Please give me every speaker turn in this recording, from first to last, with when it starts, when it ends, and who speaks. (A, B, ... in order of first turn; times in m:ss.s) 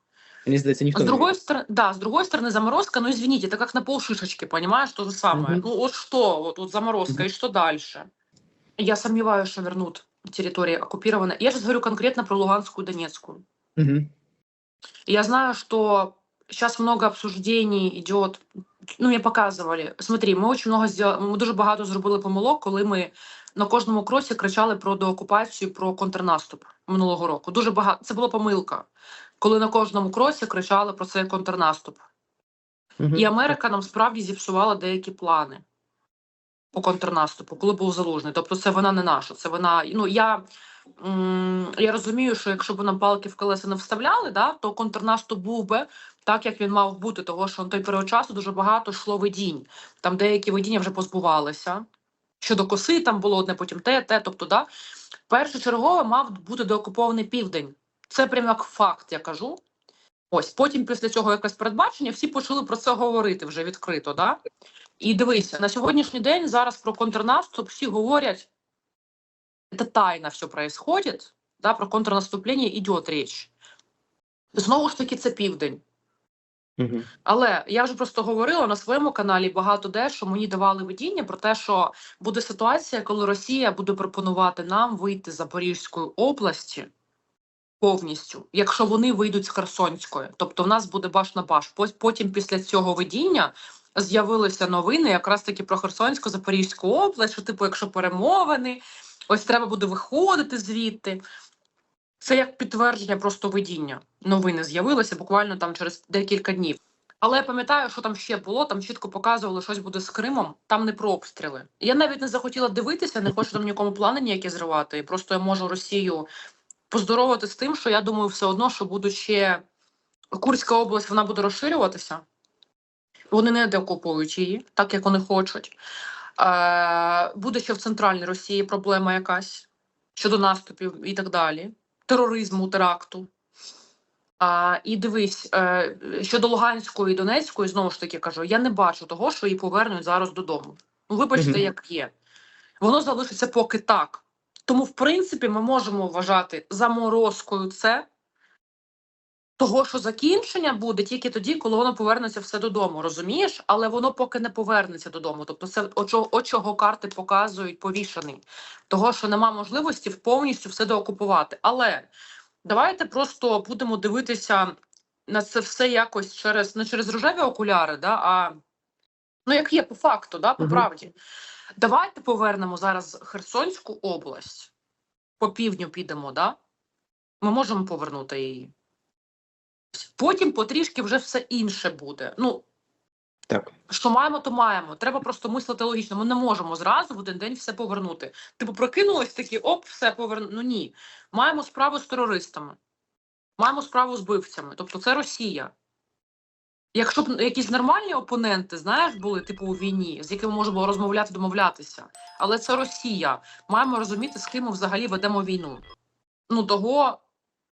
0:00.4-0:01.3 A
0:00.9-0:08.1 B
0:05.3-0:05.6 A
0:08.8-0:13.4 B
0:13.8-0:14.1 A
0:15.1-0:18.4 B
0:19.0-0:28.9 B
0:29.4-0:32.0 B
0:33.0-0:33.4 A
0:33.1-0:35.6 B
0:36.7-0:40.4 B
0:41.0-0:51.8 B
0:52.4-0:54.7 B
0:55.3-0:59.6 B
1:00.3-1:04.4 B
1:05.0-1:08.5 B
1:09.7-1:13.5 B
1:14.5-1:15.8 B
1:16.8-1:17.1 A
1:17.2-1:26.9 B
1:27.8-1:41.2 B
1:42.2-1:56.3 B
1:56.9-1:59.6 B
2:00.3-2:02.2 B
2:03.3-2:05.7 B
2:06.4-2:13.3 B
2:14.4-2:22.1 B
2:21.4-2:21.6 A
2:22.8-2:28.0 B
2:29.6-2:42.1 B
2:42.6-2:44.7 B
2:45.3-2:48.5 B
2:49.4-2:51.1 B
2:50.6-2:50.8 A
2:51.8-2:54.7 B
2:55.4-2:56.6 B
2:57.4-2:58.7 B
3:00.0-3:02.6 B
3:03.9-3:12.8 B
3:13.6-3:15.7 B
3:16.9-3:25.8 B
3:26.5-3:27.2 B